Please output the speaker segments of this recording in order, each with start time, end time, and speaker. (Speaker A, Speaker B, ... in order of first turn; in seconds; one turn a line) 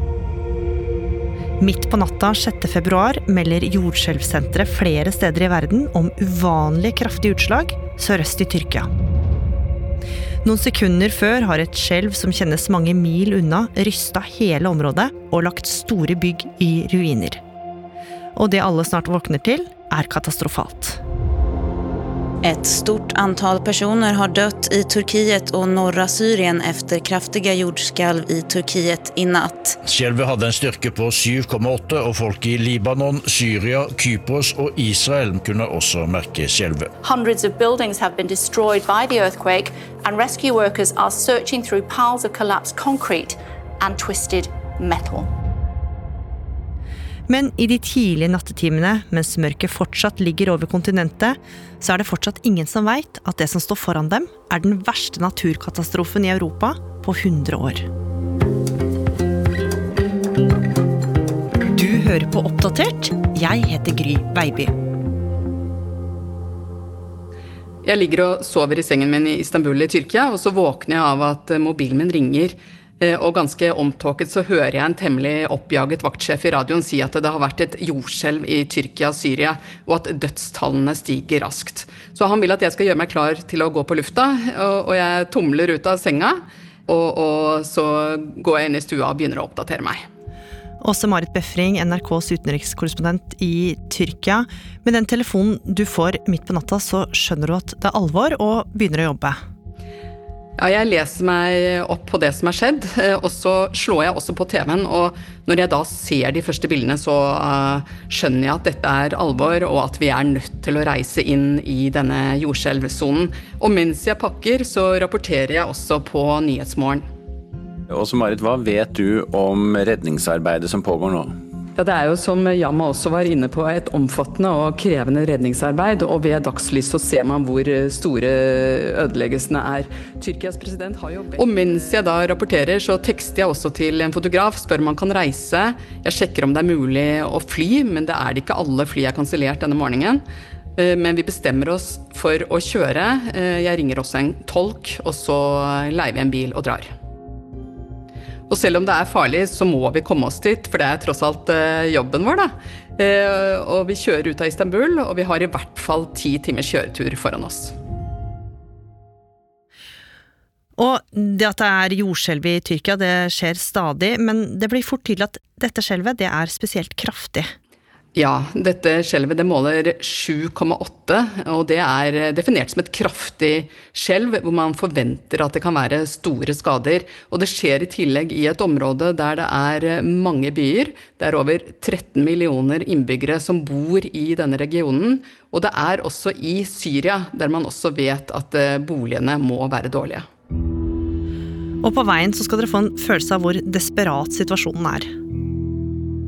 Speaker A: 1.6-8.9
Speaker A: 10.4-17.4
Speaker A: 18.3-21.0
Speaker B: 22.4-29.8
Speaker C: 29.8-36.9
Speaker D: 37.0-45.3
Speaker A: 47.3-57.9
Speaker A: 61.7-64.7
Speaker E: 67.8-90.0
Speaker A: 90.8-99.4
Speaker E: 100.6-117.0
Speaker F: 117.9-121.3
Speaker E: 121.8-140.2
Speaker E: 140.8-146.9
Speaker E: 148.5-157.7
Speaker A: 160.8-167.5
Speaker E: 168.1-190.3
Speaker A: 191.8-195.1